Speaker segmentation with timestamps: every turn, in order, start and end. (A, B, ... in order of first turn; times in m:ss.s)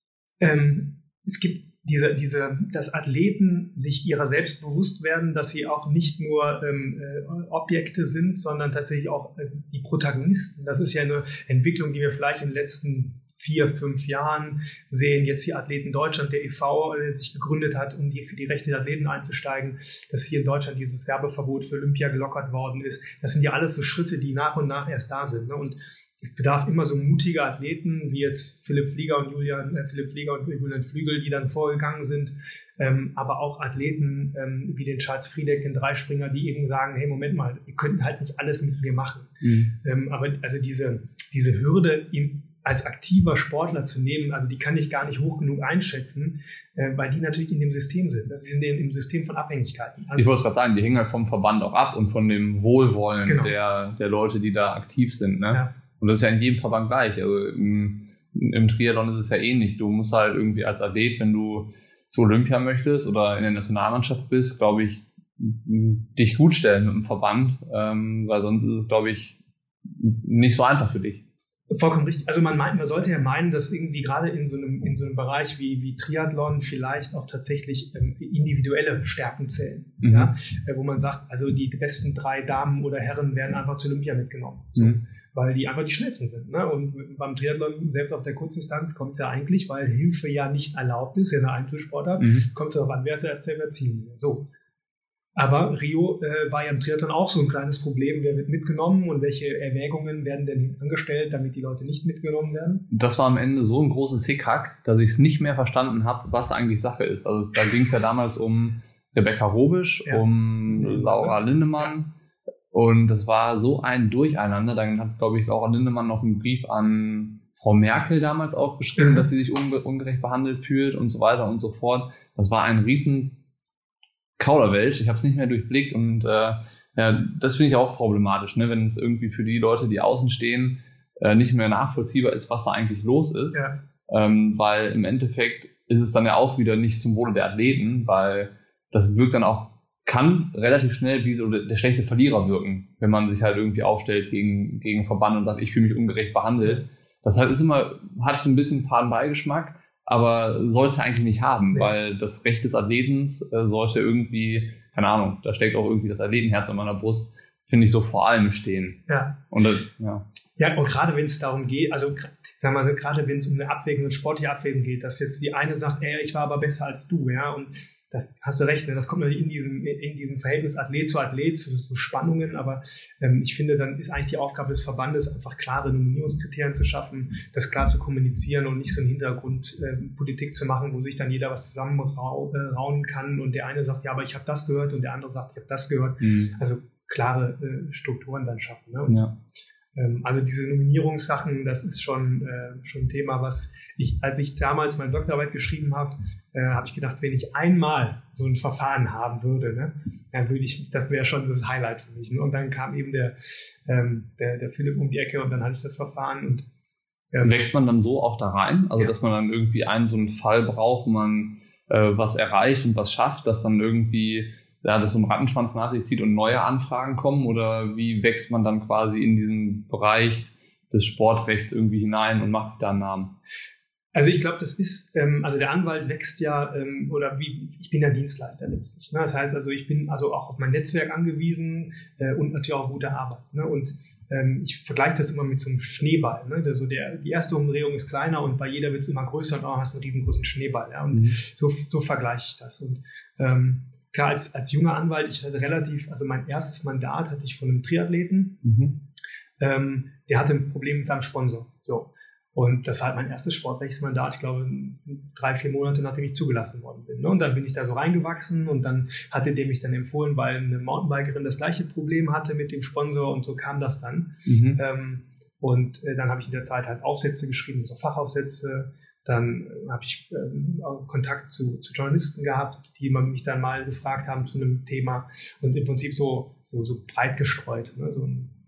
0:00.4-0:50.3 A
0:39.4-0:39.7 B
0:50.2-1:11.2 B
0:53.2-0:53.5 A
1:11.7-1:34.4 A
1:20.0-1:20.3 B
1:32.2-1:32.5 B
1:35.4-1:42.9 A
1:42.9-1:52.1 B
1:50.0-1:51.4 A
1:52.7-2:03.4 B
1:59.0-1:59.2 A
2:04.4-2:40.2 B
2:13.5-2:13.8 A
2:39.1-2:39.4 A
2:40.6-3:09.2 A
3:06.2-3:06.5 B
3:09.9-3:26.6 A
3:27.4-3:43.3 B
3:44.1-4:08.6 A
4:01.1-4:01.4 B
4:08.6-4:08.9 B
4:09.6-4:38.5 A
4:24.5-4:24.8 B